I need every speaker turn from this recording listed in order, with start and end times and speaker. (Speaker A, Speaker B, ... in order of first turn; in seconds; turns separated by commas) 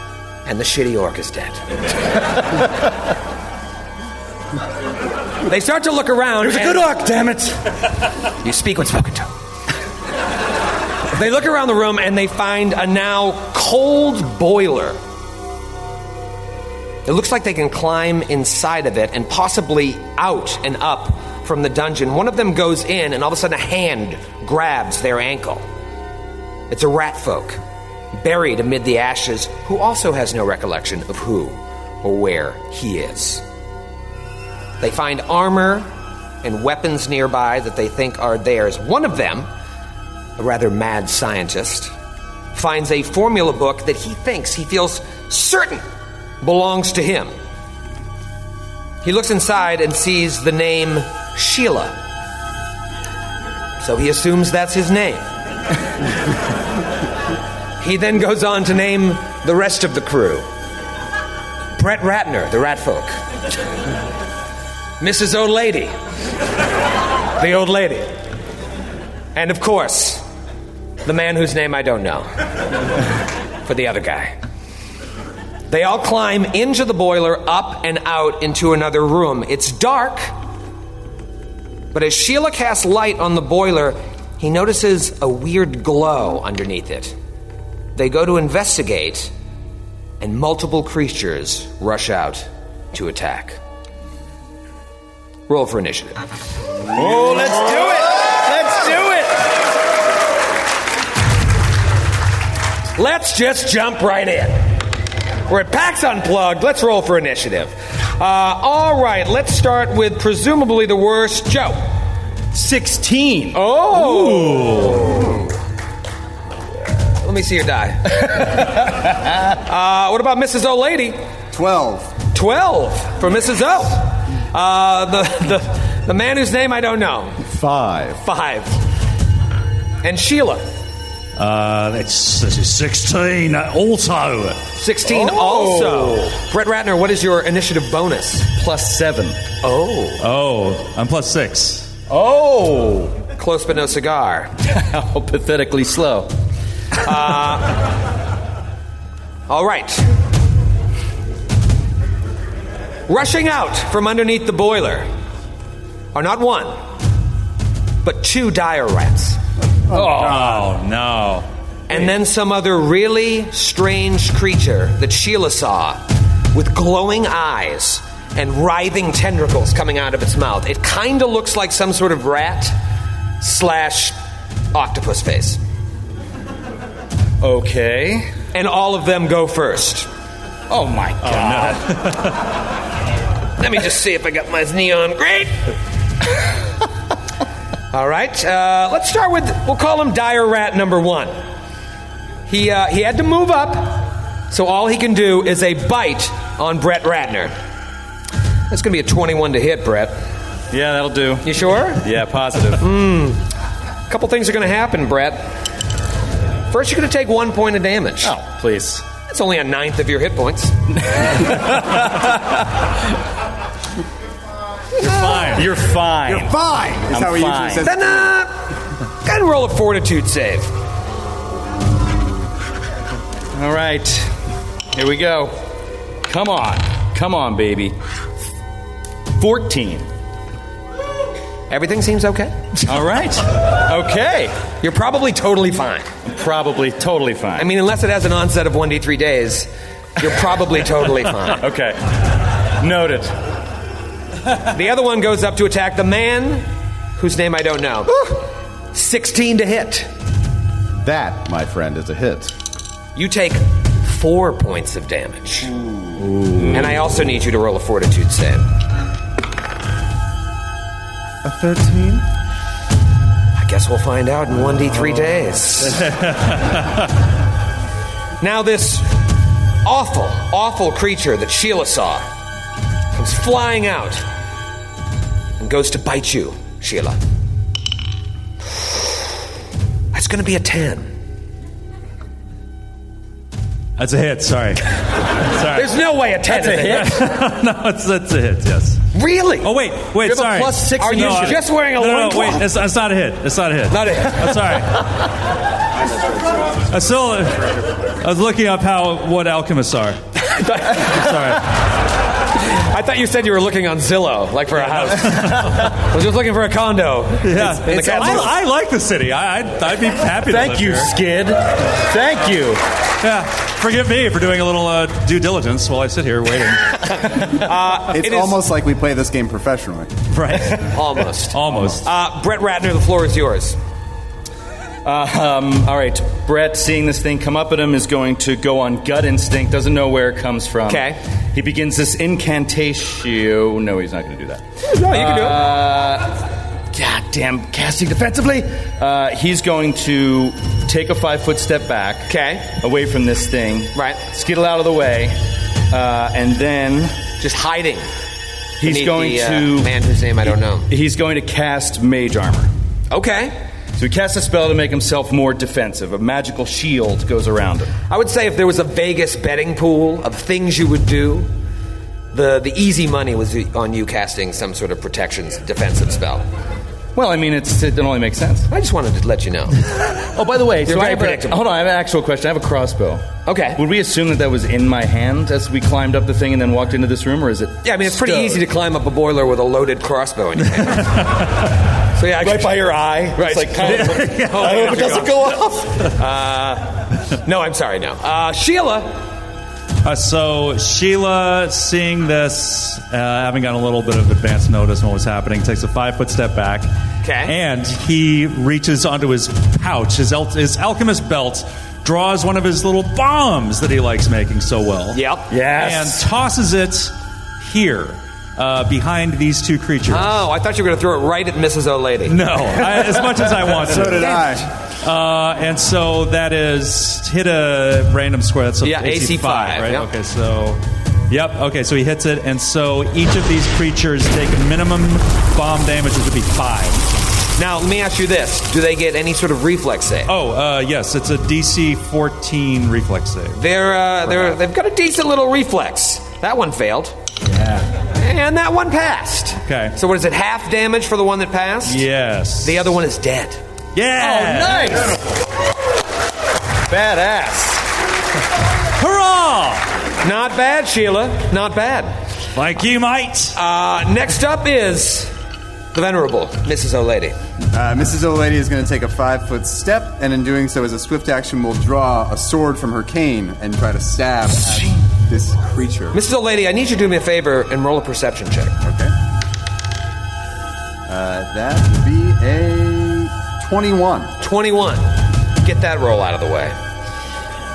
Speaker A: 0.5-1.6, Speaker A: 5.5-6.9, Speaker B: 6.4-7.6, Speaker A: 8.4-9.3, Speaker A: 11.1-15.0, Speaker A: 17.1-25.6, Speaker A: 26.7-27.6, Speaker A: 28.1-33.4, Speaker A: 34.8-35.9, Speaker A: 36.4-39.5, Speaker A: 40.4-41.9, Speaker A: 42.5-45.8, Speaker A: 46.4-47.3, Speaker A: 49.0-52.0, Speaker A: 53.8-55.3, Speaker A: 57.8-60.5, Speaker A: 61.8-63.2, Speaker A: 65.0-65.9, Speaker A: 67.4-68.2, Speaker A: 69.3-70.2, Speaker A: 71.0-72.3, Speaker A: 73.7-74.3, Speaker A: 75.7-80.3, Speaker A: 81.9-87.2, Speaker A: 88.0-89.3, Speaker A: 90.2-93.6, Speaker A: 95.5-96.2, Speaker B: 96.9-99.3, Speaker A: 103.0-104.7, Speaker A: 105.5-111.8, Speaker B: 112.5-115.1, Speaker A: 113.5-115.5, Speaker C: 114.0-115.2, Speaker A: 117.0-118.8, Speaker A: 119.5-121.2, Speaker D: 121.5-122.2, Speaker A: 122.3-127.5, Speaker E: 127.5-128.2, Speaker A: 128.2-128.8, Speaker A: 130.0-130.7, Speaker C: 131.4-134.7, Speaker A: 134.8-138.5, Speaker B: 135.1-136.3, Speaker B: 138.6-139.4, Speaker A: 139.6-140.2, Speaker C: 140.2-141.9, Speaker B: 142.1-143.2, Speaker A: 143.4-144.5, Speaker B: 144.7-146.3, Speaker A: 147.0-147.8, Speaker A: 149.5-150.1, Speaker A: 153.1-155.1, Speaker A: 156.1-156.8, Speaker A: 158.0-159.4, Speaker C: 159.9-161.5, Speaker A: 161.9-166.0, Speaker A: 166.5-172.8, Speaker A: 173.4-174.2, Speaker A: 174.7-175.6, Speaker B: 177.4-178.3, Speaker A: 178.5-180.1, Speaker B: 180.7-182.0, Speaker C: 181.2-182.4, Speaker A: 183.6-185.6, Speaker A: 187.9-191.3, Speaker A: 192.5-197.5, Speaker A: 198.7-200.2, Speaker B: 200.7-202.8, Speaker A: 201.4-202.1, Speaker A: 202.8-203.4, Speaker A: 204.1-205.5, Speaker A: 206.7-208.4, Speaker B: 208.2-209.1, Speaker A: 209.3-210.8, Speaker B: 211.0-212.8, Speaker C: 215.0-215.7, Speaker B: 215.4-216.6, Speaker D: 216.3-218.3, Speaker B: 217.1-217.9, Speaker A: 217.8-218.5, Speaker A: 219.2-220.7, Speaker B: 223.5-224.3, Speaker B: 224.9-225.6, Speaker B: 226.3-227.9, Speaker B: 229.4-230.1, Speaker A: 231.7-232.6, Speaker B: 232.8-234.6, Speaker A: 234.8-236.1, Speaker B: 236.3-237.7, Speaker A: 237.6-241.6, Speaker B: 241.6-242.0, Speaker B: 242.7-243.3, Speaker A: 244.7-250.1, Speaker E: 251.0-252.5, Speaker A: 253.2-255.7, Speaker E: 255.8-256.2, Speaker B: 256.5-257.0, Speaker A: 256.7-258.6, Speaker E: 261.4-262.2, Speaker A: 263.6-266.1, Speaker C: 266.1-267.0, Speaker A: 268.4-269.1, Speaker A: 269.9-272.2, Speaker A: 273.1-274.2, Speaker A: 275.6-277.2, Speaker A: 280.1-281.1, Speaker C: 284.0-285.9, Speaker A: 285.7-287.3, Speaker B: 286.5-287.2, Speaker C: 286.8-289.1, Speaker A: 289.1-289.7, Speaker C: 289.6-295.1, Speaker B: 290.2-291.6, Speaker A: 290.9-292.6, Speaker A: 293.9-294.6, Speaker C: 296.9-300.2, Speaker A: 300.4-301.4, Speaker C: 301.0-301.7, Speaker A: 302.6-308.5, Speaker C: 305.2-305.8, Speaker B: 305.3-305.9, Speaker C: 307.4-311.1, Speaker B: 310.5-312.8, Speaker C: 313.2-317.1, Speaker A: 317.0-318.6, Speaker D: 318.1-320.1, Speaker C: 320.3-321.0, Speaker A: 320.8-323.8, Speaker C: 321.5-322.1, Speaker B: 325.1-336.3, Speaker A: 330.9-331.2, Speaker A: 334.8-335.6, Speaker B: 336.9-345.4, Speaker A: 342.3-342.7, Speaker A: 343.9-344.2, Speaker B: 345.9-347.2, Speaker A: 347.4-348.1, Speaker B: 348.8-349.9, Speaker A: 348.8-350.9, Speaker B: 350.9-352.7, Speaker A: 353.1-353.5, Speaker B: 354.0-357.9, Speaker A: 358.1-361.5, Speaker A: 362.3-366.4, Speaker B: 367.2-368.7, Speaker A: 368.7-369.8, Speaker B: 370.1-373.2, Speaker A: 370.9-371.6, Speaker A: 373.5-373.8, Speaker B: 373.8-378.6, Speaker A: 377.8-381.3, Speaker A: 382.1-385.5, Speaker B: 382.4-386.1, Speaker C: 383.9-385.0, Speaker A: 386.1-389.2, Speaker C: 390.0-396.9, Speaker A: 397.2-397.5, Speaker C: 397.5-410.4, Speaker A: 405.1-405.5, Speaker B: 405.5-406.2, Speaker A: 410.1-412.4, Speaker C: 412.3-427.1, Speaker E: 413.9-414.7, Speaker D: 414.0-414.5, Speaker A: 418.8-420.1, Speaker A: 427.6-430.3, Speaker C: 430.3-433.6, Speaker A: 433.6-437.2, Speaker A: 438.1-442.0, Speaker C: 439.6-439.9, Speaker C: 441.9-442.9, Speaker A: 442.6-443.6, Speaker C: 443.9-445.1, Speaker B: 444.2-445.3, Speaker B: 446.9-447.9, Speaker C: 449.0-449.9, Speaker A: 450.2-452.1, Speaker C: 452.6-453.6, Speaker A: 453.6-455.3, Speaker A: 455.9-457.4, Speaker D: 457.7-466.2, Speaker A: 466.1-468.8, Speaker D: 468.8-469.1, Speaker D: 471.1-474.3, Speaker A: 474.4-475.1, Speaker A: 475.6-476.8